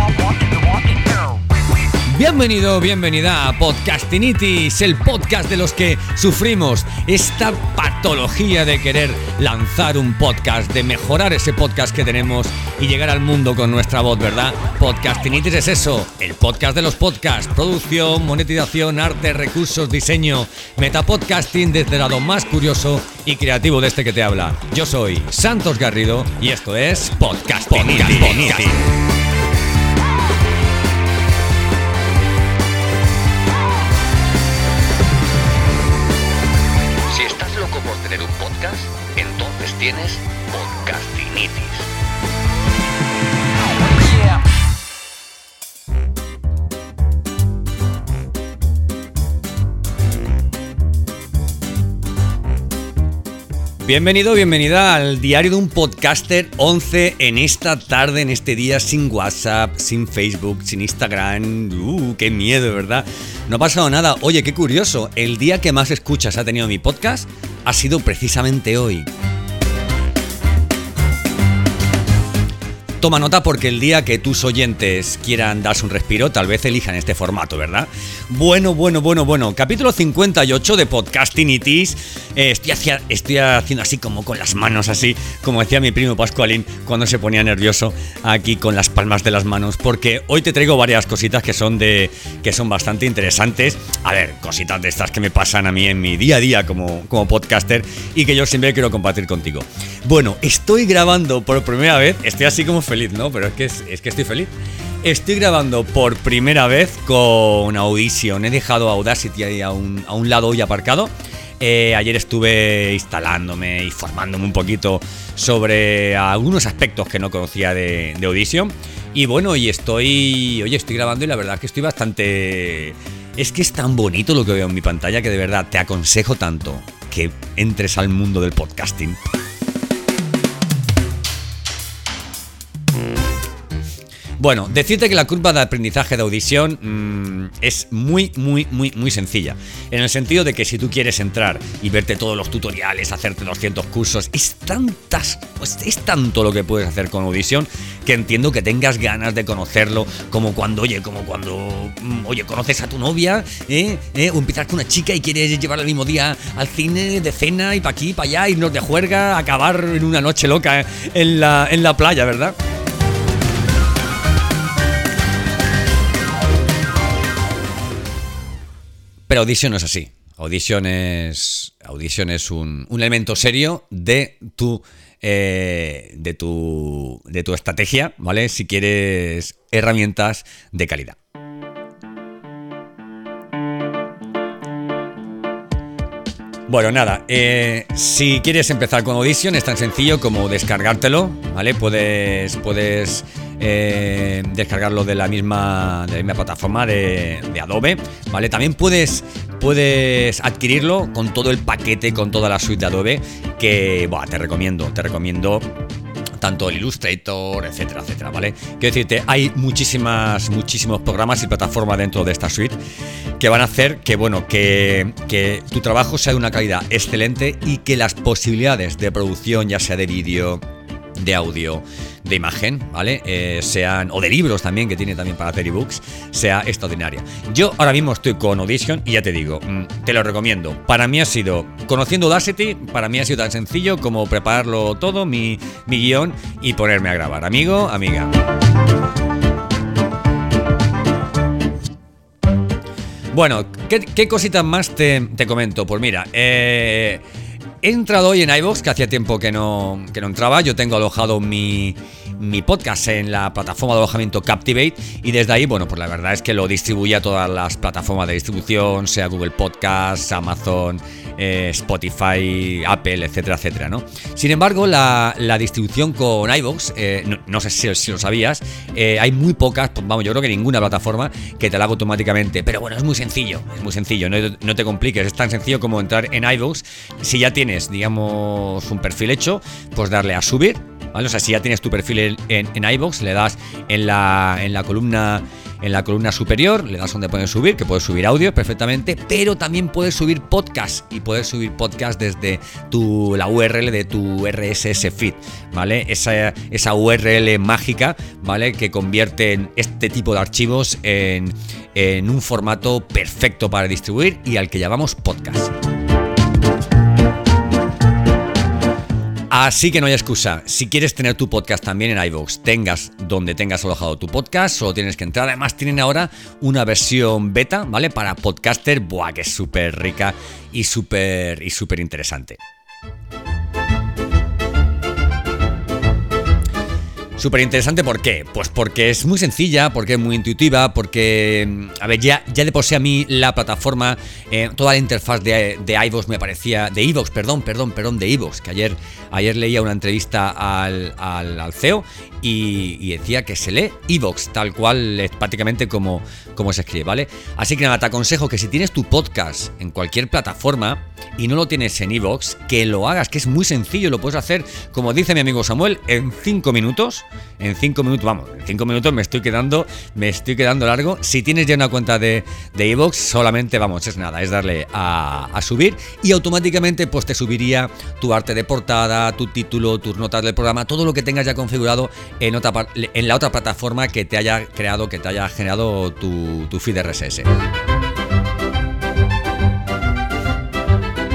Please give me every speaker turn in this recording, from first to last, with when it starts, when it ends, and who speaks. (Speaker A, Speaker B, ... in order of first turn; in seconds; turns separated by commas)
Speaker A: 2.0-28.8, Speaker A: 37.1-41.9, Speaker A: 53.8-69.1, Speaker A: 73.0-104.5, Speaker A: 105.0-129.2, Speaker A: 134.4-162.6, Speaker A: 169.3-181.2, Speaker A: 186.7-205.7, Speaker A: 206.4-212.8, Speaker A: 213.4-220.6, Speaker A: 221.2-238.3, Speaker A: 243.3-247.2, Speaker A: 247.8-305.7, Speaker A: 309.5-322.6, Speaker A: 327.4-377.5